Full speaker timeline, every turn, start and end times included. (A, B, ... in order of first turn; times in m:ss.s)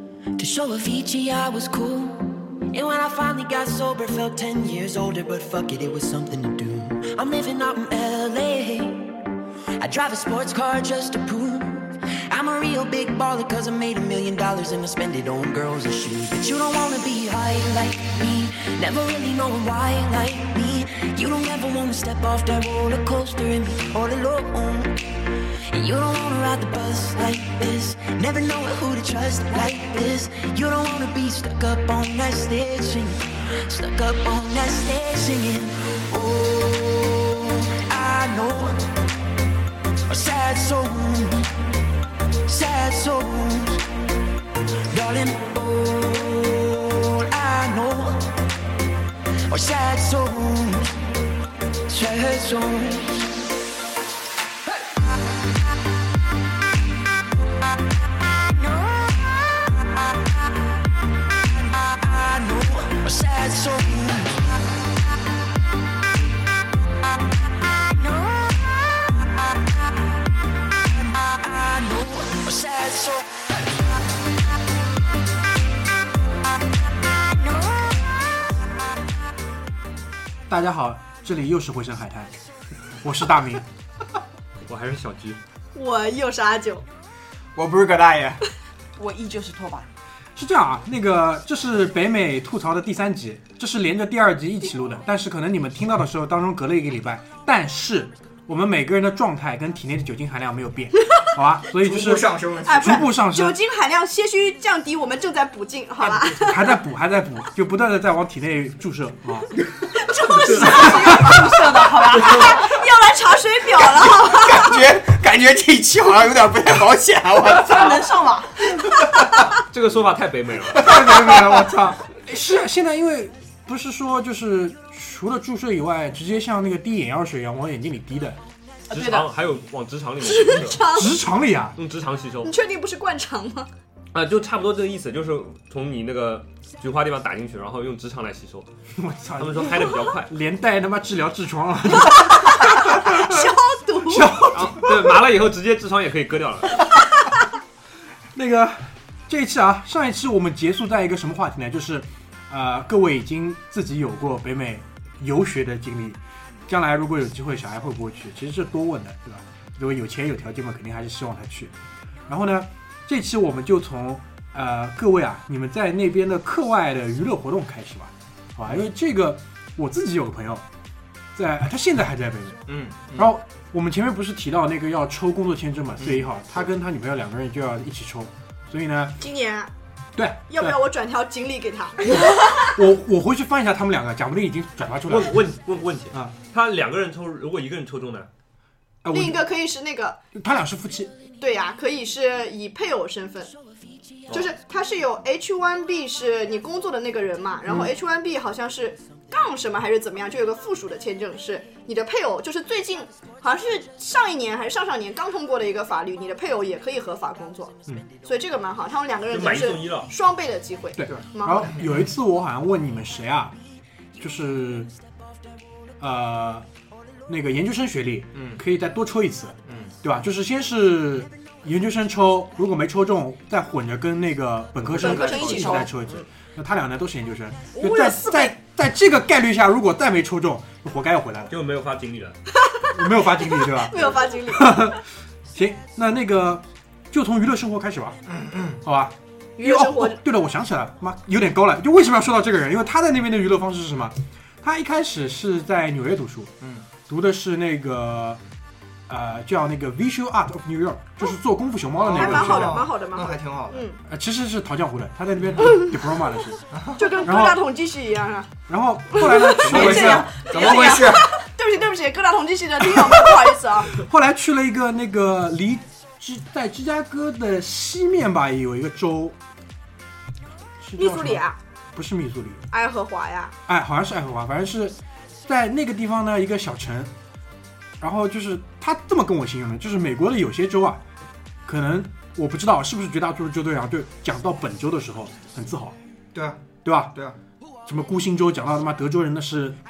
0:00.4-0:09.2 A
0:09.8-0:38.9 A
0:40.1-0:41.5 A
0:42.4-0:43.8 A
0:44.9-0:48.4 A
0:49.5-0:50.9 A
0:51.9-0:53.4 A
0:58.6-0:59.8 A
1:01.7-1:04.5 A
1:07.9-1:09.4 A
1:10.8-1:13.3 A
1:20.5-1:22.3 B
1:23.0-1:23.6 B
1:24.6-1:25.4 C
1:25.7-1:26.8 D
1:27.6-1:28.4 E
1:29.0-1:29.9 F
1:30.4-1:42.2 B
1:41.8-1:43.1 E
1:42.6-1:46.8 D
1:42.8-1:43.6 B
1:46.4-1:49.5 B
1:49.5-1:50.8 E
1:50.0-1:51.2 D
1:50.3-1:52.8 F
1:50.7-1:51.4 B
1:52.3-1:54.8 D
1:53.8-1:58.0 E
1:57.5-1:58.9 F
1:58.8-1:59.4 E
1:59.6-2:01.1 C
2:00.7-2:02.0 E
2:00.9-2:08.4 B
2:08.9-2:09.2 F
2:08.9-2:10.8 C
2:10.2-2:11.2 D
2:10.9-2:11.8 B
2:11.7-2:12.5 C
2:12.4-2:13.7 D
2:14.1-2:18.7 C
2:19.0-2:23.5 B
2:19.4-2:20.4 C
2:22.7-2:24.6 D
2:24.0-2:25.0 B
2:24.5-2:26.8 C
2:28.3-2:41.7 B
2:42.3-2:50.6 B
2:51.3-2:52.6 B
2:52.7-2:53.3 E
2:53.2-2:59.2 B
2:56.0-2:56.6 E
2:59.2-2:59.7 D
3:00.1-3:00.8 B
3:00.5-3:02.8 D
3:02.1-3:05.4 B
3:05.0-3:08.3 C
3:09.0-3:09.4 B
3:09.1-3:10.2 D
3:10.3-3:11.1 B
3:11.4-3:13.5 D
3:14.3-3:31.7 D
3:29.3-3:30.1 C
3:31.0-3:33.5 B
3:34.2-3:34.9 B
3:36.0-3:36.6 B
3:37.3-3:51.5 B
3:38.3-3:38.6 E
3:39.7-3:39.9 E
3:44.9-3:46.2 D
3:45.0-3:45.6 C
3:47.8-3:48.5 D
3:51.5-3:52.4 C
3:52.6-3:54.9 D
3:52.9-3:55.0 B
3:55.5-3:58.2 B
3:58.3-3:58.8 E
3:58.8-4:06.5 B
3:59.6-4:00.2 D
4:07.1-4:08.4 B
4:09.1-4:12.8 B
4:12.0-4:13.9 E
4:12.1-4:14.0 D
4:14.1-4:16.6 B
4:15.4-4:15.7 E
4:16.7-4:17.0 E
4:17.0-4:18.5 D
4:17.2-4:17.6 B
4:18.7-4:20.3 B
4:19.1-4:23.9 D
4:19.6-4:21.3 E
4:19.7-4:21.2 F
4:23.9-4:29.4 B
4:30.8-4:32.6 B
4:31.0-4:31.6 D
4:32.7-4:33.5 D
4:33.7-4:37.1 B
4:38.0-4:41.0 B
4:41.6-4:45.9 B
4:46.3-4:46.6 E
4:46.8-4:47.1 B
4:47.8-4:49.8 B